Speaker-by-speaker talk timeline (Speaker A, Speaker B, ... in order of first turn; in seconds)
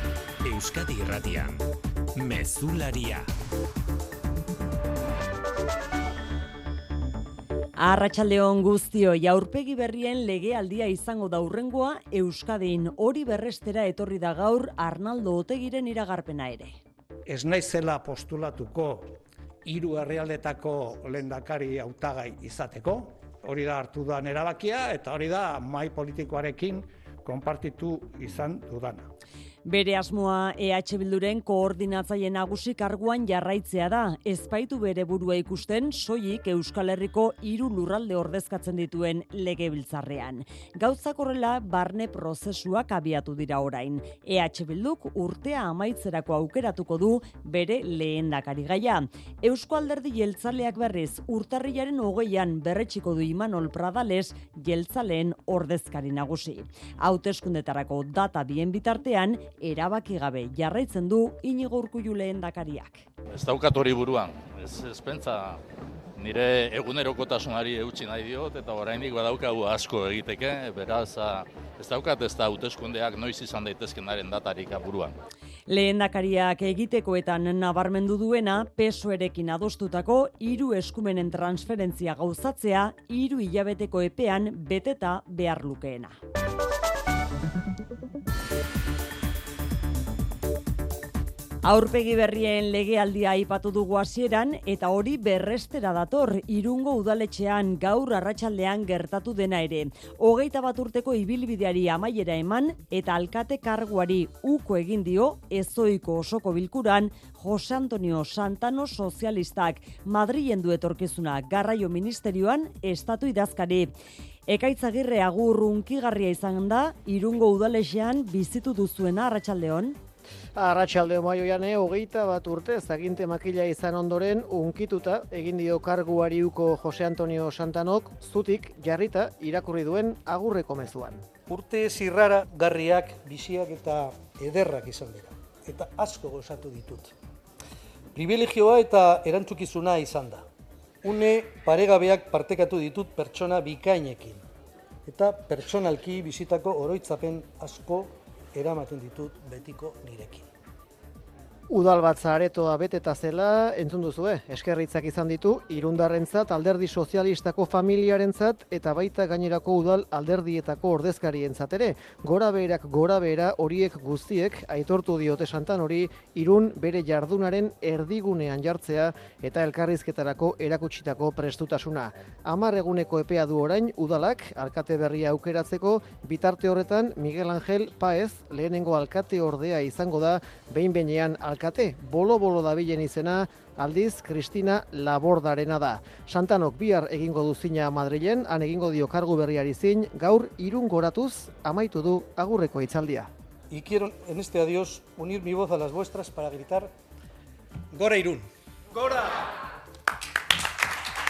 Speaker A: 0.4-1.6, 2.1-3.3
Speaker B: 7.8-16.8, 29.6-63.0, 75.7-86.2, 91.6-113.9, 114.5-120.0
Speaker C: 17.3-29.1
Speaker D: 63.3-65.6, 66.2-75.1
Speaker E: 120.6-131.2, 151.7-193.3
Speaker F: 131.5-137.1, 138.2-140.4, 141.0-144.4, 145.1-150.5, 193.7-196.9, 197.9-199.2